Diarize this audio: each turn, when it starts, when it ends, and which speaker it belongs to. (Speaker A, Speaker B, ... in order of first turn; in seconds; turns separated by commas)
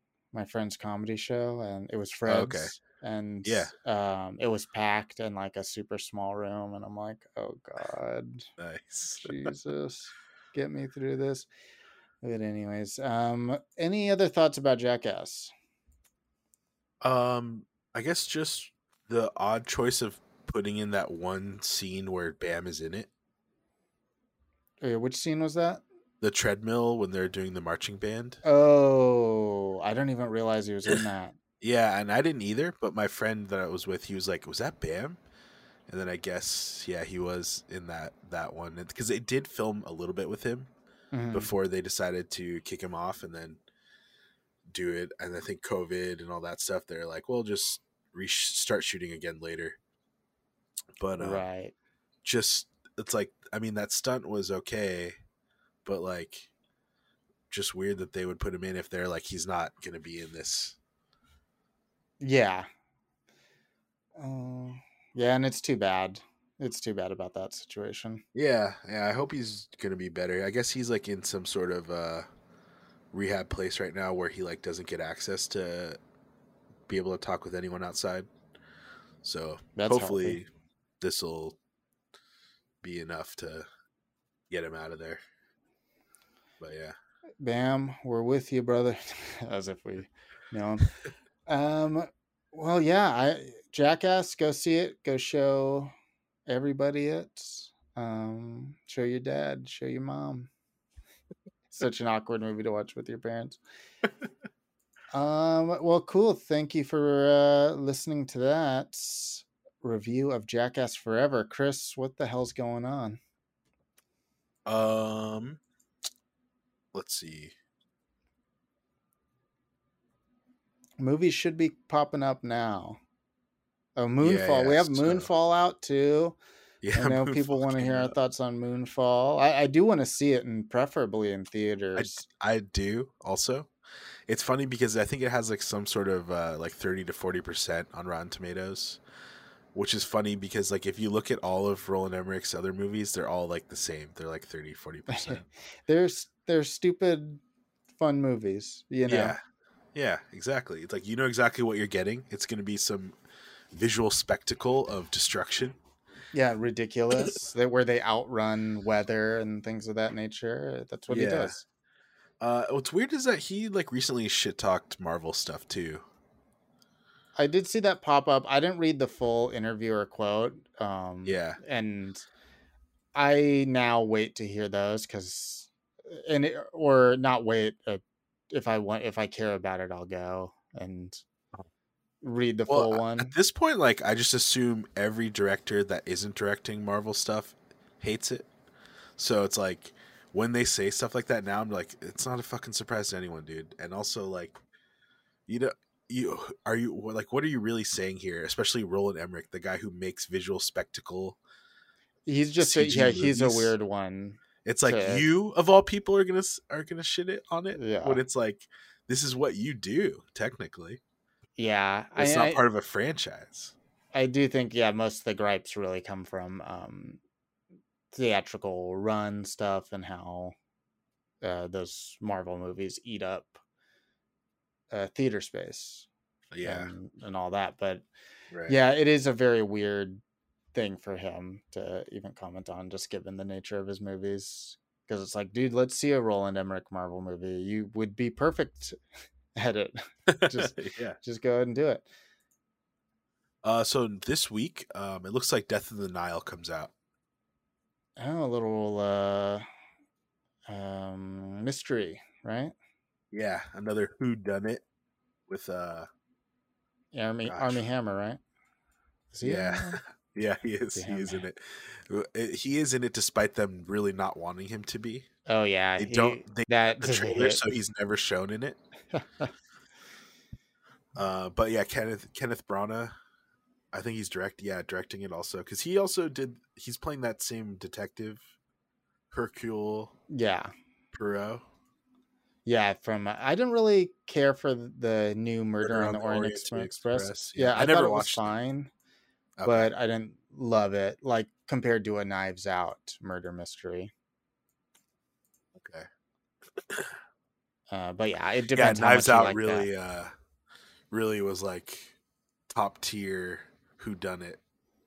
Speaker A: 0.3-8.5, Speaker B: 2.3-2.7, Speaker B: 3.4-3.7, Speaker B: 8.6-9.5, Speaker A: 9.2-11.5, Speaker A: 12.2-15.5, Speaker B: 17.0-23.1, Speaker A: 24.8-25.8, Speaker B: 26.2-28.4, Speaker A: 28.4-31.4, Speaker B: 31.6-35.2, Speaker B: 35.9-40.7, Speaker A: 41.1-41.5, Speaker B: 41.3-43.6, Speaker B: 44.7-49.8, Speaker B: 51.0-51.4, Speaker A: 51.2-51.7, Speaker B: 52.2-55.1, Speaker B: 55.9-56.5, Speaker B: 57.5-60.8, Speaker A: 62.2-62.7, Speaker A: 64.2-68.2, Speaker B: 68.3-72.3, Speaker B: 73.1-76.0, Speaker B: 76.9-78.3, Speaker B: 79.2-80.5, Speaker A: 79.8-80.4, Speaker B: 81.0-81.6, Speaker B: 82.8-83.7, Speaker B: 84.5-85.2, Speaker B: 86.6-87.0, Speaker A: 87.4-90.9, Speaker A: 91.5-95.9, Speaker A: 96.5-100.5, Speaker A: 101.7-103.6, Speaker A: 105.1-113.2, Speaker B: 114.7-115.6, Speaker B: 116.9-117.5, Speaker A: 121.0-123.0, Speaker A: 124.0-126.4, Speaker B: 124.2-125.3, Speaker B: 126.8-128.2, Speaker A: 127.0-132.2, Speaker B: 132.0-133.7, Speaker B: 134.3-139.0, Speaker B: 139.7-145.5, Speaker A: 145.1-147.4, Speaker A: 148.0-149.4, Speaker B: 149.1-149.4, Speaker B: 149.9-153.2, Speaker B: 153.7-155.8, Speaker A: 156.3-161.6, Speaker B: 161.1-161.6, Speaker B: 162.4-166.1, Speaker A: 167.4-172.3, Speaker B: 171.2-171.6, Speaker A: 173.2-181.2, Speaker A: 182.2-183.3, Speaker B: 182.7-188.5, Speaker B: 189.2-194.6, Speaker B: 195.5-201.4, Speaker A: 202.3-205.2, Speaker B: 202.6-203.7, Speaker B: 204.7-211.0, Speaker A: 207.8-208.2, Speaker A: 211.6-212.6, Speaker B: 212.2-213.8, Speaker A: 214.1-217.2, Speaker A: 218.1-220.6, Speaker A: 221.4-223.6, Speaker A: 224.9-226.1, Speaker B: 226.5-226.9, Speaker A: 226.6-228.1, Speaker B: 228.5-228.8, Speaker A: 228.7-230.2, Speaker A: 230.7-239.0, Speaker A: 239.6-242.1, Speaker B: 240.3-241.2, Speaker B: 243.6-246.9, Speaker A: 248.2-249.7, Speaker A: 250.7-252.7, Speaker B: 253.3-254.8, Speaker B: 255.5-256.1, Speaker A: 257.1-258.4, Speaker B: 257.5-257.8, Speaker A: 259.3-260.0, Speaker B: 259.4-265.3, Speaker A: 260.9-261.4, Speaker A: 265.5-267.6, Speaker B: 266.0-268.8, Speaker A: 269.1-269.5, Speaker B: 271.2-273.1, Speaker B: 273.9-278.5, Speaker B: 279.3-280.1, Speaker A: 280.3-280.7, Speaker B: 281.1-281.6, Speaker A: 282.7-288.9, Speaker B: 285.8-288.5, Speaker B: 289.6-289.9, Speaker A: 289.6-294.1, Speaker B: 295.8-296.1, Speaker B: 296.8-297.2, Speaker A: 297.9-299.9, Speaker B: 298.7-300.3, Speaker B: 301.1-302.2, Speaker B: 302.7-304.6